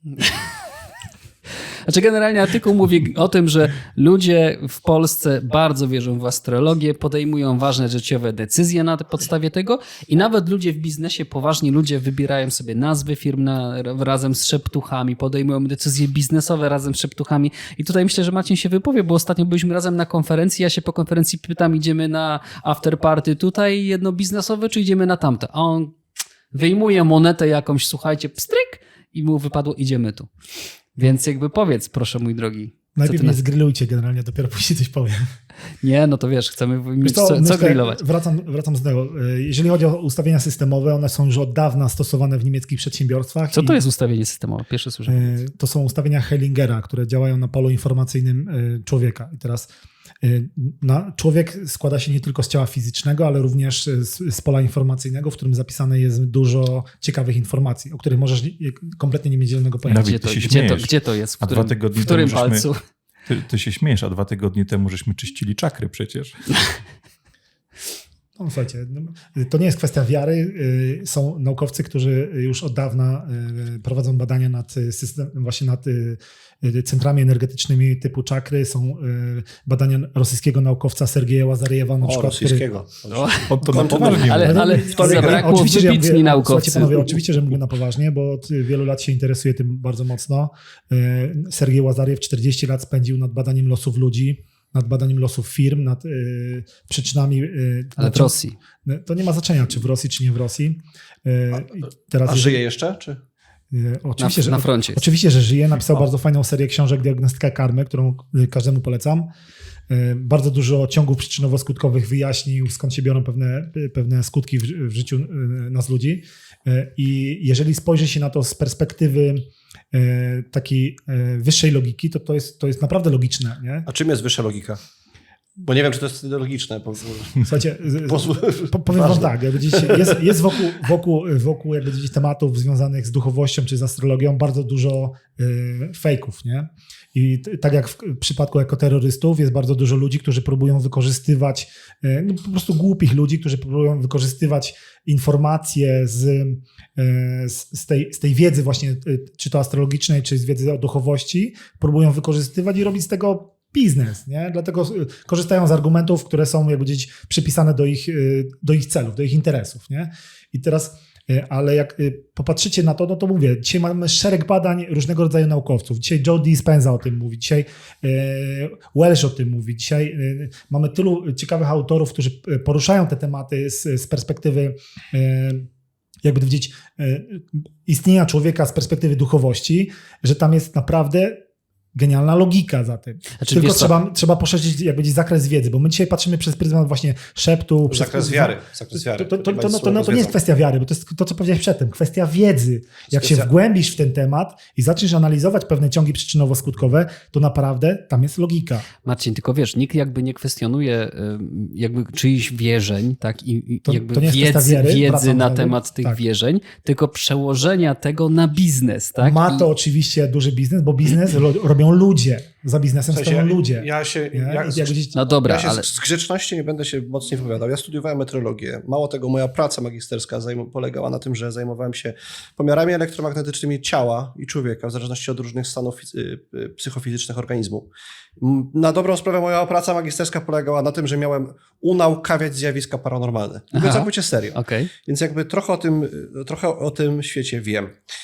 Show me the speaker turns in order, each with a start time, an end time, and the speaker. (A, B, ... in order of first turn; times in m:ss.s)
0:00.2-0:00.4 A
0:01.8-0:26.0 A
0:26.5-0:30.3 A
0:30.9-0:33.4 A
0:33.0-0:35.2 B
0:35.8-0:38.0 A
0:37.0-0:43.8 B
0:43.5-0:45.4 A
0:45.1-0:49.7 B
0:50.2-1:00.1 B
0:59.8-1:02.7 C
1:00.0-1:02.8 A
1:03.2-1:06.5 C
1:08.4-1:22.7 B
1:22.0-1:25.6 D
1:23.1-1:23.5 A
1:23.5-1:24.6 C
1:23.7-1:42.6 B
1:24.0-1:27.1 A
1:38.0-1:38.5 A
1:42.2-1:43.2 D
1:43.7-1:49.3 B
1:44.2-1:45.0 A
1:49.9-2:03.9 B
2:03.9-2:04.8 D
2:05.6-2:07.5 D
2:07.4-2:55.7 B
2:08.0-2:10.3 D
2:56.2-3:01.4 B
3:01.9-3:18.8 B
3:03.4-3:04.0 A
3:07.9-3:10.4 D
3:13.1-3:13.5 D
3:19.0-3:29.6 A
3:23.8-3:26.2 B
3:29.2-3:35.2 B
3:33.1-3:34.9 D
3:35.1-3:35.9 A
3:35.4-3:58.0 D
3:53.7-3:54.9 A